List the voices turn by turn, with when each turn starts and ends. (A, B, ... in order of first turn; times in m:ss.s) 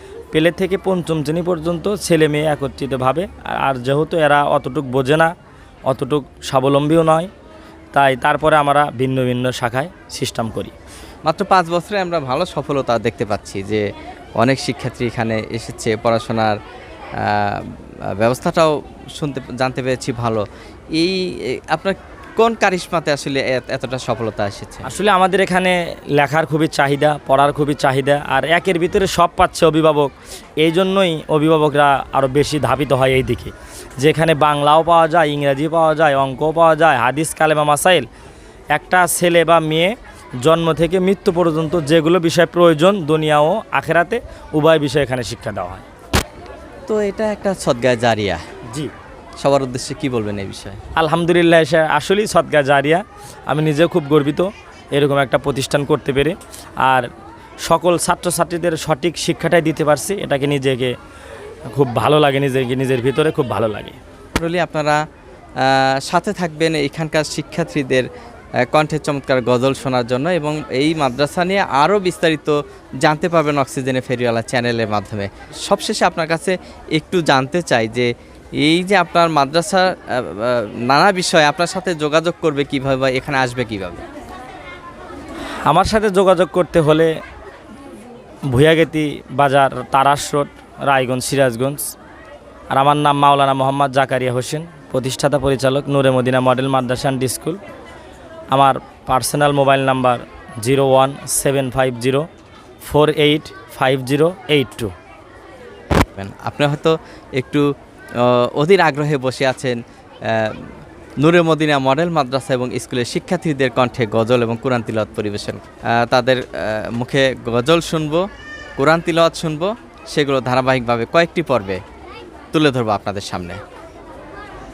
0:00.3-0:05.3 A
0:05.9-0:07.3 A
0:07.9-0:10.8 A
0:11.2-0:13.8 B
0:14.4-0:16.6 B
0:17.2-0:20.4 B
0:21.0-0:24.9 B
0:24.8-0:38.1 A
0:38.7-0:45.8 A
0:46.8-0:48.4 B
0:49.4-0:50.8 B
0:51.0-0:57.1 A
0:57.6-1:00.9 A
1:01.7-1:04.0 A
1:04.4-1:05.0 B
1:05.6-1:08.1 B
1:08.6-1:24.0 B
1:25.6-1:27.1 A
1:28.5-1:31.9 A
1:32.7-1:37.6 A
1:38.5-1:42.3 A
1:42.8-1:44.9 A
1:46.2-1:58.2 B
1:58.8-2:01.8 B
2:02.5-2:03.6 B